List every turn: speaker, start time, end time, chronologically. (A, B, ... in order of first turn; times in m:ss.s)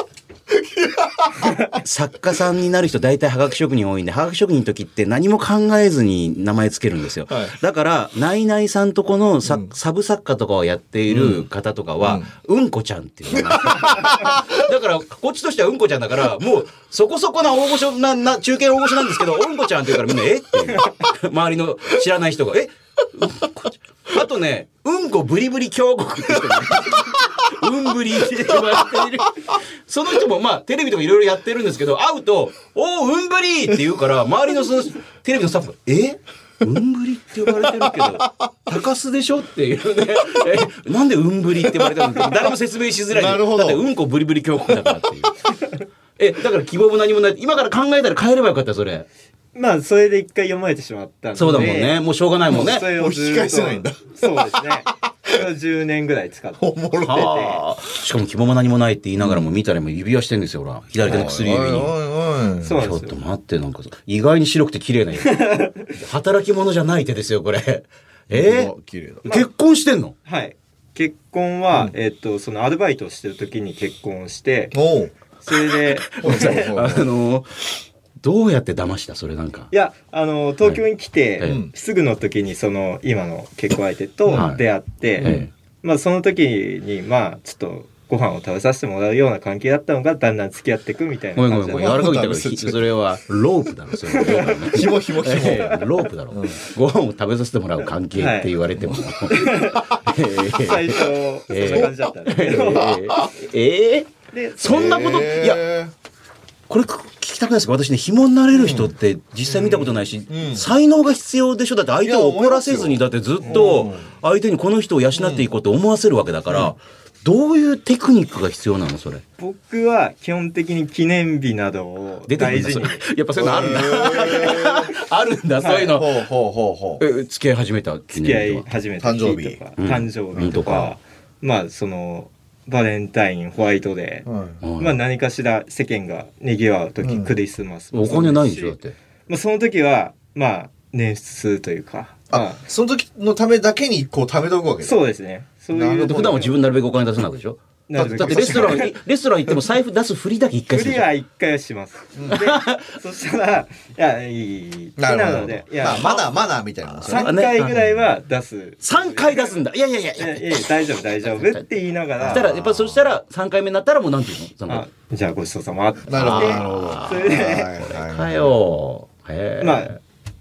0:00.5-0:01.5 A
0:01.7-0:45.4 B
0:07.3-0:07.5 A
0:09.4-0:09.7 A
0:11.1-0:11.4 A
0:12.0-0:12.3 A
0:13.3-0:14.5 A
0:37.6-0:38.1 A
0:43.1-0:43.8 A
0:46.2-0:49.1 B
0:49.5-0:57.6 C
0:51.4-0:52.8 B
0:52.5-0:54.7 A
0:56.6-0:57.4 A
0:57.0-1:01.9 B
1:01.0-1:02.8 A
1:02.6-1:03.2 C
1:02.8-1:08.7 B
1:05.2-1:05.9 C
1:08.3-1:09.2 A
1:09.2-1:09.5 C
1:09.2-1:10.1 B
1:10.2-1:14.8 C
1:14.7-1:15.1 A
1:15.4-1:16.8 C
1:15.9-1:17.6 B
1:16.2-1:17.1 A
1:18.2-1:19.7 B
1:19.7-1:32.0 C
1:21.4-1:21.7 A
1:24.3-1:24.6 B
1:25.2-1:25.4 A
1:25.2-1:25.5 B
1:31.4-1:45.6 B
1:31.7-1:32.8 A
1:34.1-1:35.8 C
1:34.6-1:36.6 A
1:38.1-1:38.5 C
1:39.3-1:39.9 C
1:40.5-1:43.0 C
1:41.6-1:41.9 A
1:42.7-1:43.3 A
1:44.3-1:45.3 C
1:44.6-1:45.9 A
1:46.7-1:59.2 B
1:48.5-1:48.9 A
1:49.4-1:50.7 A
1:52.0-1:54.1 A
1:53.4-1:53.9 C
1:55.2-1:55.4 A
1:59.4-2:03.1 C
2:02.3-2:06.2 B
2:03.4-2:04.9 A
2:03.6-2:04.5 C
2:05.6-2:06.0 C
2:05.9-2:07.0 A
2:07.0-2:08.6 B
2:08.1-2:18.8 C
2:09.0-2:09.6 A
2:09.8-2:10.9 B
2:10.4-2:10.6 A
2:14.2-2:14.6 A
2:14.6-2:15.0 B
2:17.0-2:17.3 A
2:17.9-2:18.9 B
2:19.3-2:22.6 C
2:22.3-2:25.0 A
2:24.8-2:26.5 C
2:25.7-2:26.5 A
2:26.0-2:31.1 B
2:27.9-2:29.0 C
2:28.0-2:28.9 A
2:30.7-2:36.2 C
2:32.3-2:32.9 B
2:35.0-2:38.0 A
2:35.8-2:36.3 B
2:37.0-2:39.6 C
2:37.0-2:37.7 B
2:38.8-2:40.7 B
2:40.2-2:42.5 C
2:41.2-2:41.6 B
2:42.2-2:43.1 A
2:42.3-2:44.8 B
2:44.7-2:47.7 C
2:46.1-2:48.5 A
2:46.1-2:50.0 B
2:49.6-2:50.0 C